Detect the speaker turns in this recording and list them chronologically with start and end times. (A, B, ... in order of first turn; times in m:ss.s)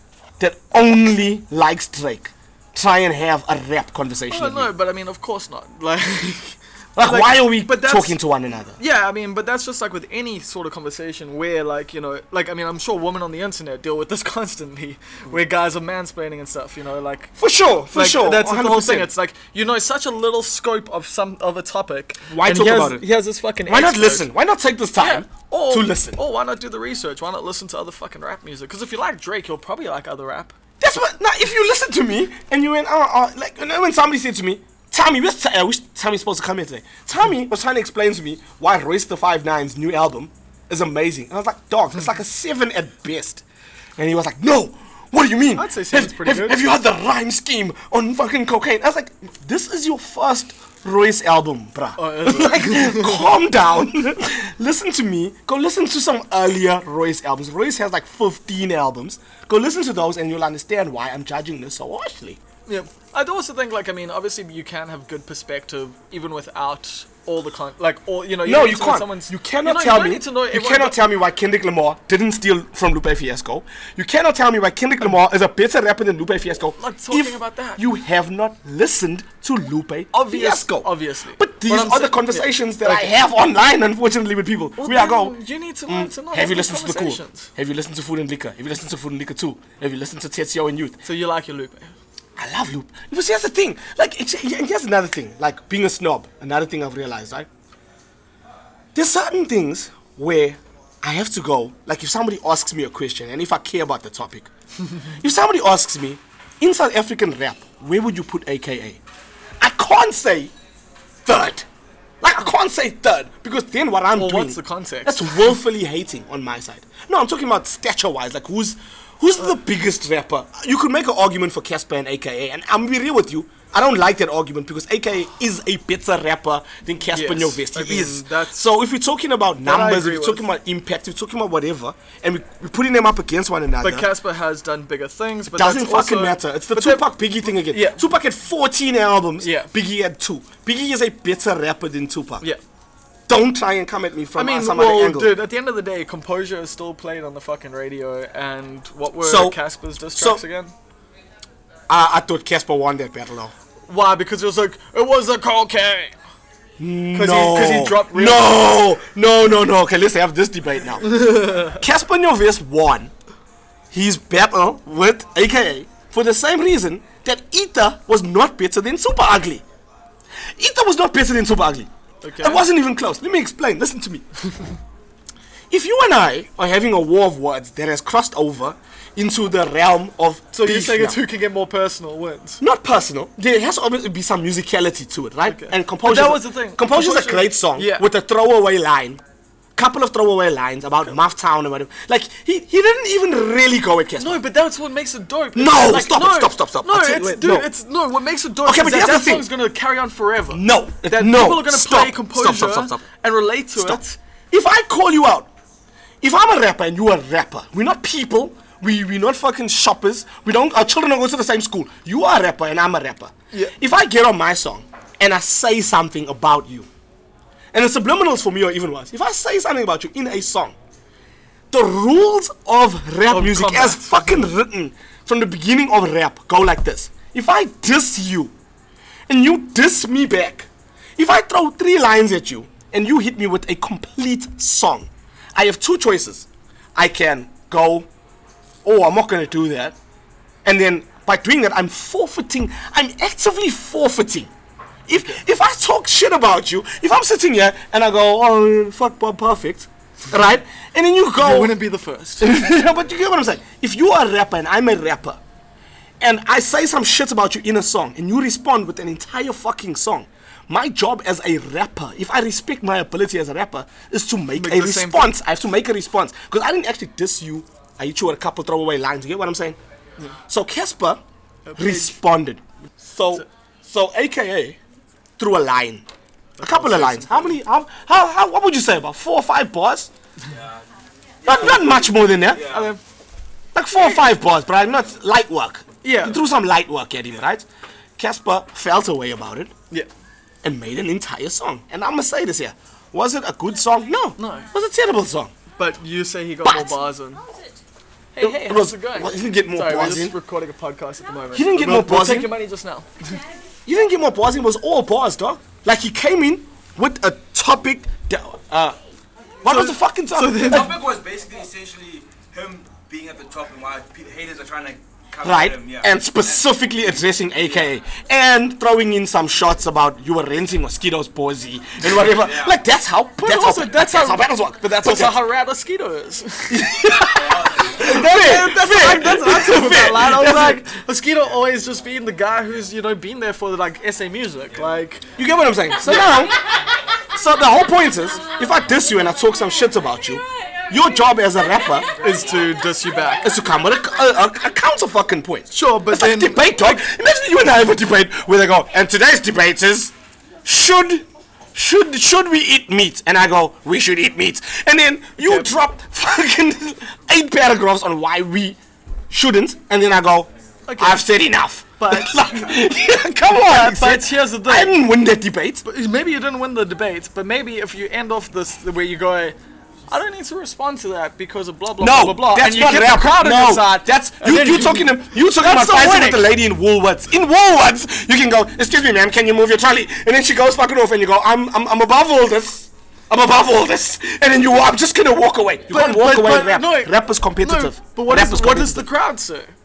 0:00.4-0:04.7 A
0:04.3-0:08.2 B
0:07.0-0:08.8 A
0:08.8-0:17.3 B
0:17.4-0:19.1 A
0:17.9-0:24.3 B
0:22.3-0:23.0 A
0:23.6-0:26.2 A
0:25.0-0:30.5 B
0:30.8-0:43.4 A
0:44.0-1:02.4 A
0:45.5-0:46.6 B
0:52.0-0:53.3 B
1:02.7-1:11.0 B
1:08.4-1:31.0 A
1:16.8-1:17.8 B
1:20.1-1:23.1 B
1:24.8-1:27.5 B
1:31.0-1:31.9 B
1:32.4-1:37.5 A
1:38.9-1:44.5 A
1:45.2-1:49.0 A
1:49.6-1:50.5 A
1:51.2-1:51.7 A
1:52.2-2:14.1 A
1:54.1-1:55.4 B
2:07.1-2:08.6 B
2:09.6-2:10.5 B
2:13.8-2:18.0 B
2:15.5-2:22.5 A
2:19.4-2:19.7 B
2:23.3-2:25.4 A
2:24.3-2:30.7 B
2:29.2-2:30.4 A
2:31.9-2:33.5 A
2:33.9-2:36.1 B
2:36.8-2:43.1 A
2:37.1-2:38.7 B
2:41.1-2:41.8 B
2:43.9-2:49.6 A
2:50.6-2:54.3 A
2:52.2-2:52.6 B
2:55.7-3:01.2 A
3:00.5-3:02.6 B
3:02.6-3:09.2 A
3:05.4-3:08.1 B
3:09.8-3:14.4 A
3:14.2-3:24.2 B
3:15.5-3:17.7 A
3:18.6-3:19.5 A
3:20.5-3:23.0 A
3:23.7-3:25.5 A
3:26.2-3:36.9 A
3:37.7-3:40.8 A
3:41.7-3:48.5 A
3:43.3-3:44.5 B
3:49.3-3:58.1 A
3:58.8-4:00.0 A
4:00.6-4:04.5 A
4:05.1-4:11.7 A
4:11.4-4:12.5 B
4:12.4-4:15.4 A
4:16.2-4:29.8 A
4:24.5-4:25.3 B
4:30.5-4:31.2 A
4:31.6-4:32.2 B
4:31.8-4:34.8 A
4:35.4-4:36.0 A
4:36.6-4:37.5 B
4:36.6-4:40.1 A
4:40.5-4:40.8 C
4:41.4-4:42.9 C
4:41.4-4:42.7 A
4:42.6-4:43.0 B
4:43.7-4:47.6 A
4:43.9-4:44.3 B
4:46.0-4:46.4 B
4:48.2-4:49.7 A
4:50.6-4:55.5 A
4:54.4-4:54.7 B
4:55.8-4:57.4 B
4:56.6-4:57.0 A
4:58.3-5:03.4 B
4:58.4-5:00.3 A
5:01.5-5:02.5 A
5:03.8-5:09.0 A
5:09.6-5:10.9 A
5:09.6-5:11.0 B
5:10.6-5:16.6 C
5:15.4-5:25.4 A
5:22.2-5:22.8 C
5:23.4-5:35.3 B
5:26.7-5:30.9 A
5:35.4-5:36.6 A
5:36.0-5:36.4 B
5:37.3-5:42.1 A
5:42.2-5:43.5 B
5:43.4-5:50.1 A
5:45.7-5:47.0 B
5:50.6-5:58.8 A
5:55.4-5:55.7 B
5:59.3-6:05.8 A
6:00.9-6:01.2 B
6:02.0-6:02.5 B
6:03.6-6:05.0 B
6:05.8-6:09.6 B
6:10.1-6:16.5 B
6:12.0-6:29.1 A
6:25.9-6:29.7 B